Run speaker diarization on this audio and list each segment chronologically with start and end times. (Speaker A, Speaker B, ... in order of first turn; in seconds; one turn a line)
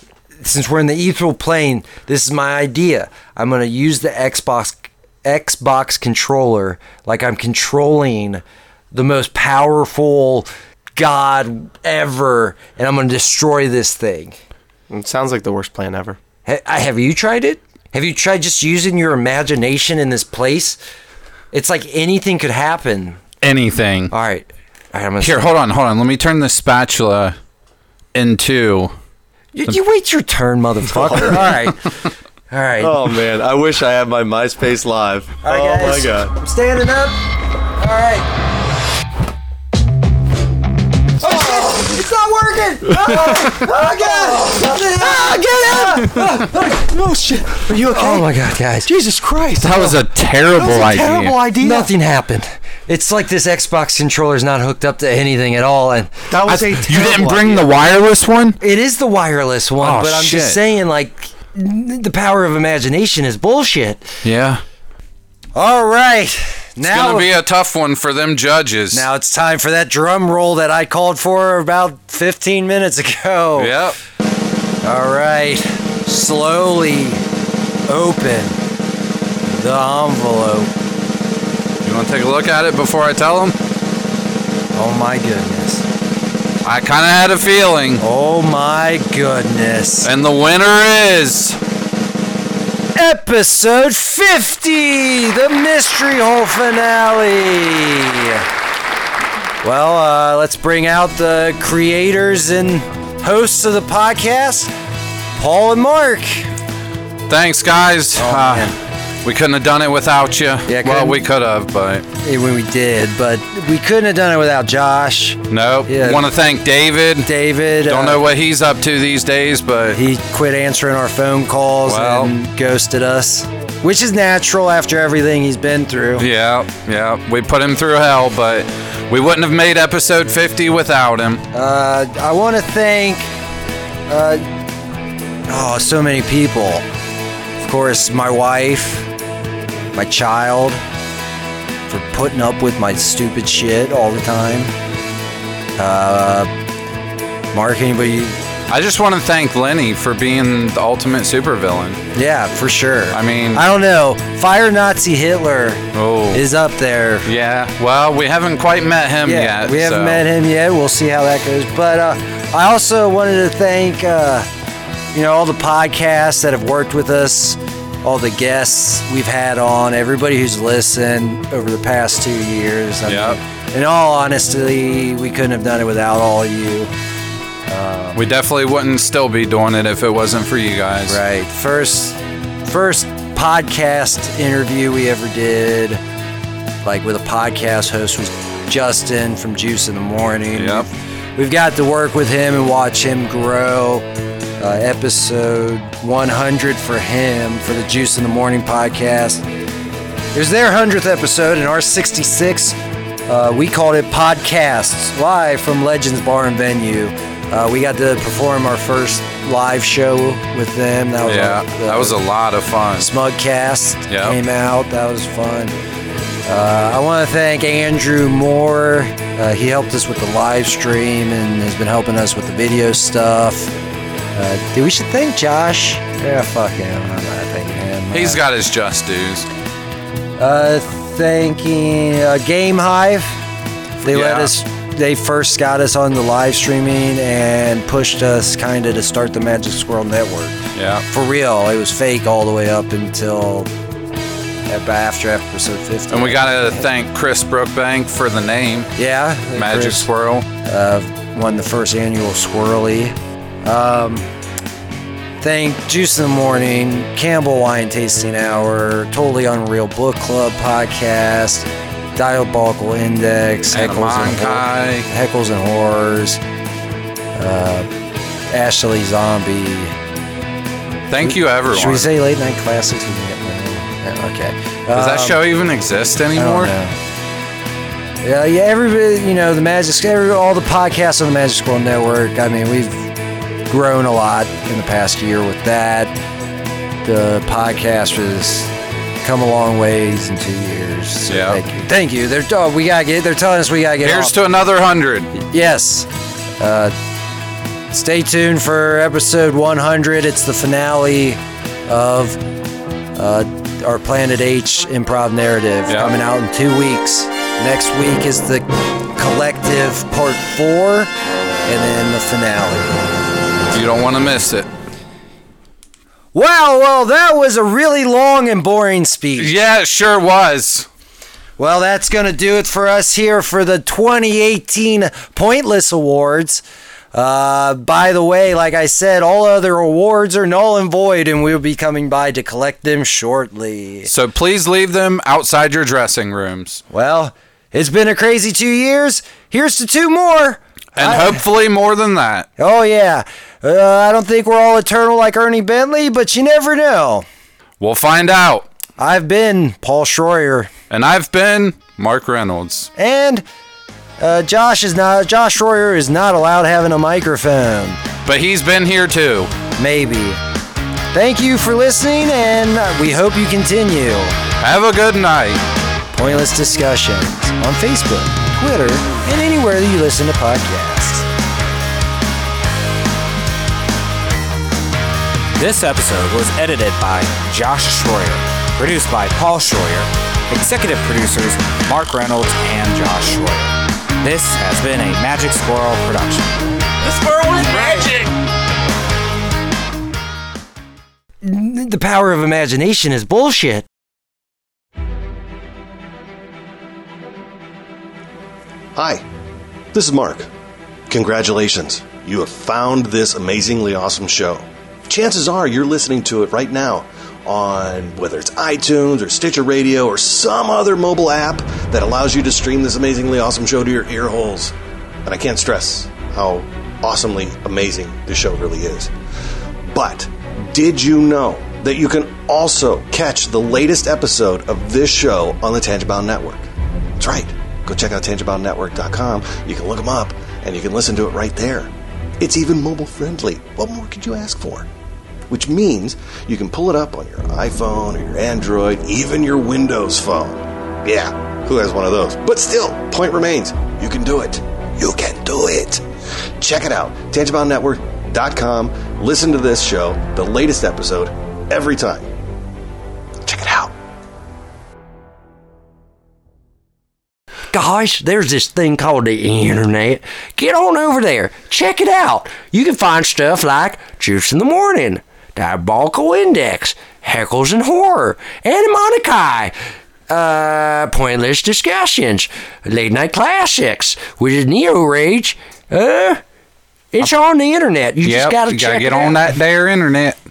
Speaker A: 0.4-14.3
Speaker B: 14.9-16.2
Speaker A: 16.4-20.8
Speaker A: 21.5-23.2
Speaker C: 23.4-24.1
Speaker A: 24.1-25.5
Speaker C: 25.2-27.4
Speaker C: 28.1-28.9
Speaker A: 29.5-31.8
Speaker B: 31.0-31.4
Speaker C: 31.2-31.7
Speaker A: 32.5-33.1
Speaker B: 32.8-36.3
Speaker A: 35.4-37.2
Speaker A: 37.8-38.3
Speaker A: 41.2-46.8
Speaker B: 41.2-41.9
Speaker B: 42.9-48.3
Speaker A: 47.9-48.9
Speaker B: 48.9-50.0
Speaker C: 49.6-51.4
Speaker B: 50.5-51.9
Speaker A: 50.6-56.2
Speaker B: 56.3-57.7
Speaker C: 56.5-58.6
Speaker A: 58.6-64.0
Speaker C: 59.8-60.6
Speaker C: 64.2-64.6
Speaker A: 65.5-67.4
Speaker C: 66.8-69.0
Speaker A: 68.9-73.8
Speaker C: 73.5-74.0
Speaker A: 74.8-77.2
Speaker A: 77.9-78.5
Speaker A: 79.5-80.7
Speaker C: 81.8-83.5
Speaker A: 84.7-85.8
Speaker C: 86.6-88.0
Speaker A: 88.0-90.1
Speaker C: 90.0-91.6
Speaker A: 93.0-98.4
Speaker A: 99.6-104.7
Speaker A: 105.4-106.5
Speaker C: 107.3-112.0
Speaker A: 108.2-108.7
Speaker A: 110.7-111.2
Speaker A: 112.2-116.3
Speaker C: 115.5-117.3
Speaker A: 117.2-118.2
Speaker C: 117.8-120.0
Speaker A: 119.9-126.3
Speaker C: 121.8-122.3
Speaker C: 126.2-131.4
Speaker A: 131.5-133.3
Speaker A: 134.1-134.4
Speaker A: 135.5-136.8
Speaker A: 137.6-139.1
Speaker A: 139.9-140.8
Speaker A: 141.9-144.7
Speaker A: 145.8-146.5
Speaker A: 147.5-148.4
Speaker C: 148.7-152.0
Speaker A: 152.1-157.3
Speaker C: 153.1-153.6
Speaker C: 155.9-156.4
Speaker C: 157.2-160.2
Speaker A: 159.2-164.5
Speaker A: 165.1-176.9
Speaker C: 173.1-173.4
Speaker A: 177.7-178.2
Speaker C: 178.1-181.2
Speaker A: 181.1-186.0
Speaker A: 186.8-194.0
Speaker C: 190.5-190.9
Speaker A: 194.6-199.4
Speaker A: 200.3-202.8
Speaker A: 203.3-212.2
Speaker C: 211.2-213.1
Speaker A: 213.0-215.8
Speaker C: 214.1-214.4
Speaker A: 216.5-223.7
Speaker A: 224.3-228.4
Speaker C: 228.1-229.5
Speaker A: 230.4-233.4
Speaker A: 234.0-243.7
Speaker C: 234.0-234.5
Speaker C: 240.7-241.0
Speaker A: 244.7-246.9
Speaker C: 246.1-248.9
Speaker A: 248.9-250.1
Speaker C: 249.5-250.4
Speaker A: 250.6-254.2
Speaker A: 255.4-266.4
Speaker C: 263.7-265.1
Speaker A: 267.3-267.9
Speaker A: 268.5-269.9
Speaker C: 271.1-272.1
Speaker A: 271.2-275.4
Speaker C: 274.9-276.7
Speaker A: 276.3-276.9
Speaker A: 278.2-283.1
Speaker A: 283.7-286.1
Speaker A: 287.0-288.7
Speaker A: 289.2-294.3
Speaker C: 291.3-291.6
Speaker C: 294.0-295.3
Speaker A: 295.3-296.1
Speaker A: 296.6-296.9
Speaker A: 297.9-302.4
Speaker A: 303.1-311.1
Speaker C: 305.9-306.1
Speaker A: 311.6-313.0
Speaker C: 313.7-314.7
Speaker A: 316.3-319.5
Speaker C: 319.4-320.9
Speaker A: 321.6-334.1
Speaker C: 334.0-336.8
Speaker A: 336.9-341.4
Speaker C: 340.9-342.5
Speaker A: 342.6-347.2
Speaker C: 347.8-348.7
Speaker A: 349.0-350.7
Speaker C: 350.9-352.9
Speaker A: 353.0-353.4
Speaker A: 354.2-358.0
Speaker C: 358.2-359.5
Speaker A: 359.8-360.4
Speaker A: 361.1-364.3
Speaker C: 364.6-365.6
Speaker A: 366.1-371.2
Speaker D: 375.6-386.5
Speaker A: 387.4-388.0
Speaker A: 391.4-393.8
Speaker E: 398.9-399.2
Speaker E: 399.9-400.5
Speaker E: 401.1-414.7
Speaker E: 415.2-419.1
Speaker E: 419.9-426.6
Speaker E: 427.2-431.9
Speaker E: 432.4-434.9
Speaker E: 435.5-446.0
Speaker E: 446.6-452.2
Speaker E: 453.5-453.9
Speaker A: 457.7-469.7
Speaker A: 470.3-476.4
Speaker A: 477.1-479.5
Speaker C: 478.2-480.4